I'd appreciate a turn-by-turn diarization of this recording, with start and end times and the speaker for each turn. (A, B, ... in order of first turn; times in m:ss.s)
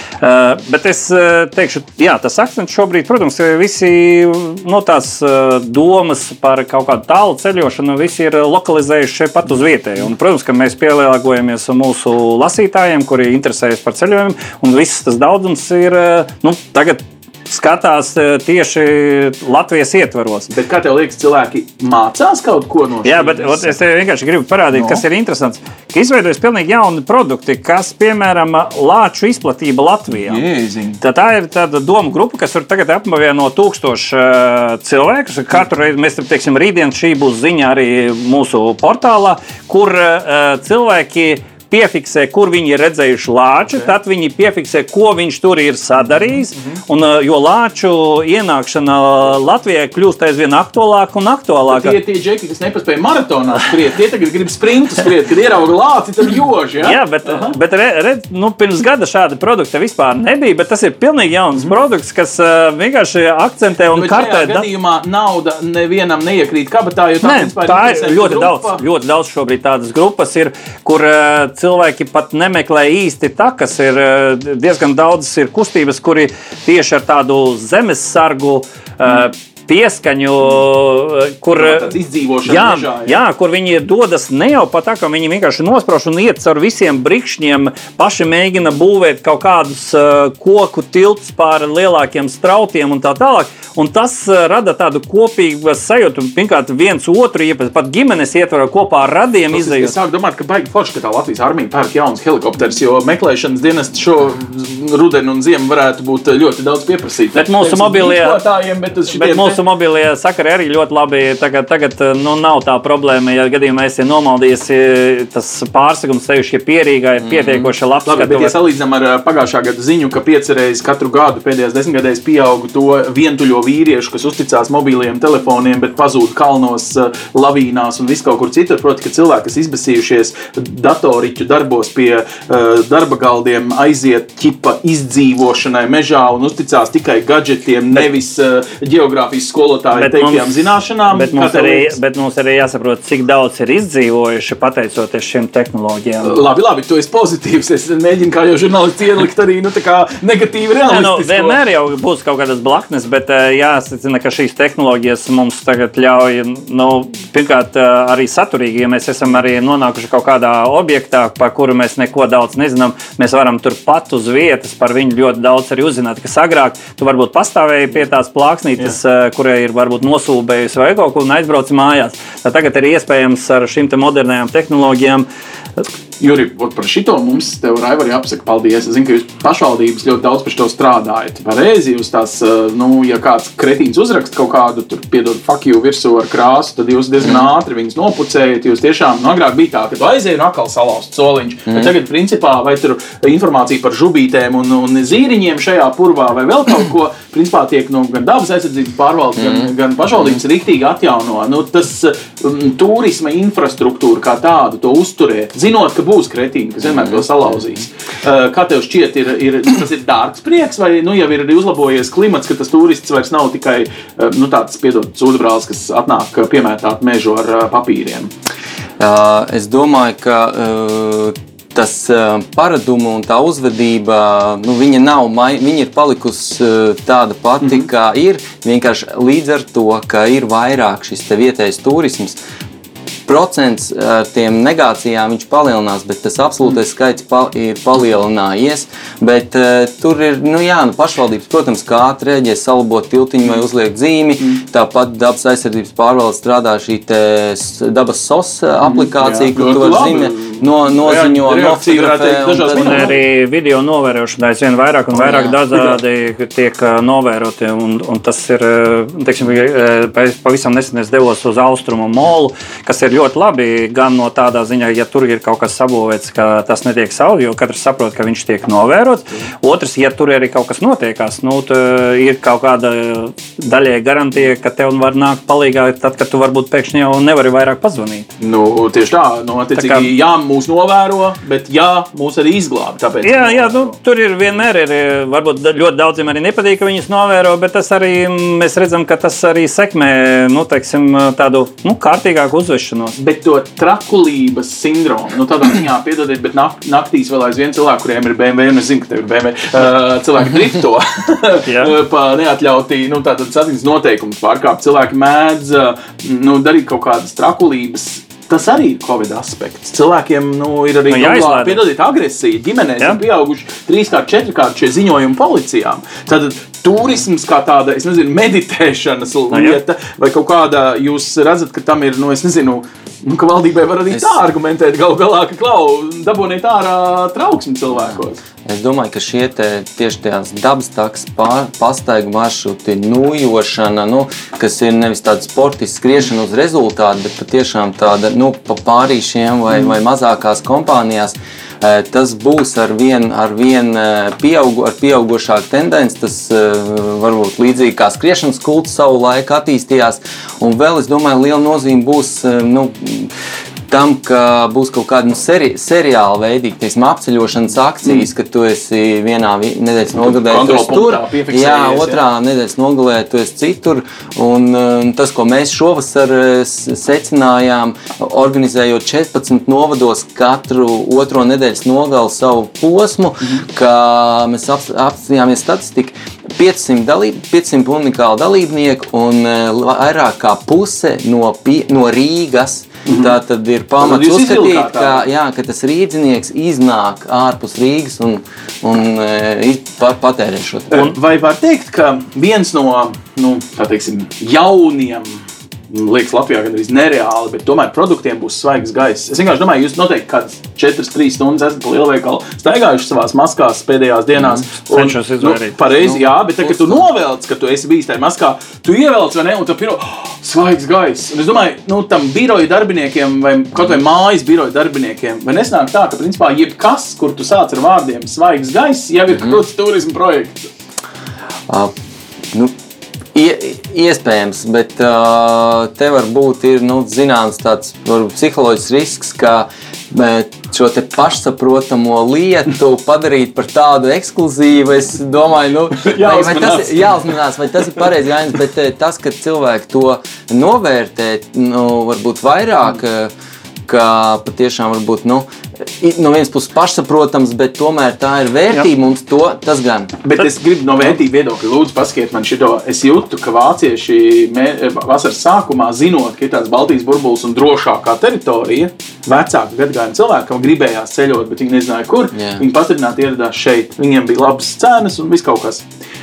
0:00.2-0:20.5 A
0:20.5-0:23.8 B
0:23.0-0:30.4 A
0:24.7-0:25.0 B
0:30.1-0:31.0 B
0:31.0-0:52.0 A
0:46.3-0:46.8 B
0:51.6-0:57.6 B
0:56.8-1:04.7 A
1:03.9-1:08.8 B
1:07.2-1:21.9 A
1:21.5-1:23.2 B
1:22.5-1:39.9 A
1:39.5-1:49.6 B
1:47.4-1:48.4 A
1:49.1-1:58.5 A
1:57.2-1:57.7 C
1:58.1-2:22.0 B
2:20.0-2:20.5 A
2:21.1-2:26.4 A
2:26.2-2:31.6 B
2:30.9-2:55.3 A
2:56.2-3:38.3 B
3:07.2-3:07.5 C
3:19.4-3:19.7 C
3:26.9-3:27.2 C
3:39.0-3:52.4 C
3:53.3-4:13.2 C
4:08.8-4:13.2 B
4:12.7-4:38.3 A
4:15.2-4:15.6 C
4:38.4-4:43.9 B
4:39.8-4:40.1 A
4:43.2-4:53.2 A
4:53.2-5:28.4 B
5:01.7-5:02.0 A
5:11.1-5:11.8 A
5:19.5-5:19.8 A
5:24.1-5:24.4 C
5:28.1-5:53.3 C
5:53.9-6:31.1 C
6:00.2-6:02.2 B
6:23.1-6:23.4 B
6:24.0-6:25.2 B
6:30.9-7:00.7 B
6:44.9-6:45.8 A
6:46.0-6:47.0 C
7:03.3-7:23.3 C
7:16.0-7:17.4 B
7:23.9-7:30.2 C
7:30.2-7:45.8 B
7:42.3-7:42.6 C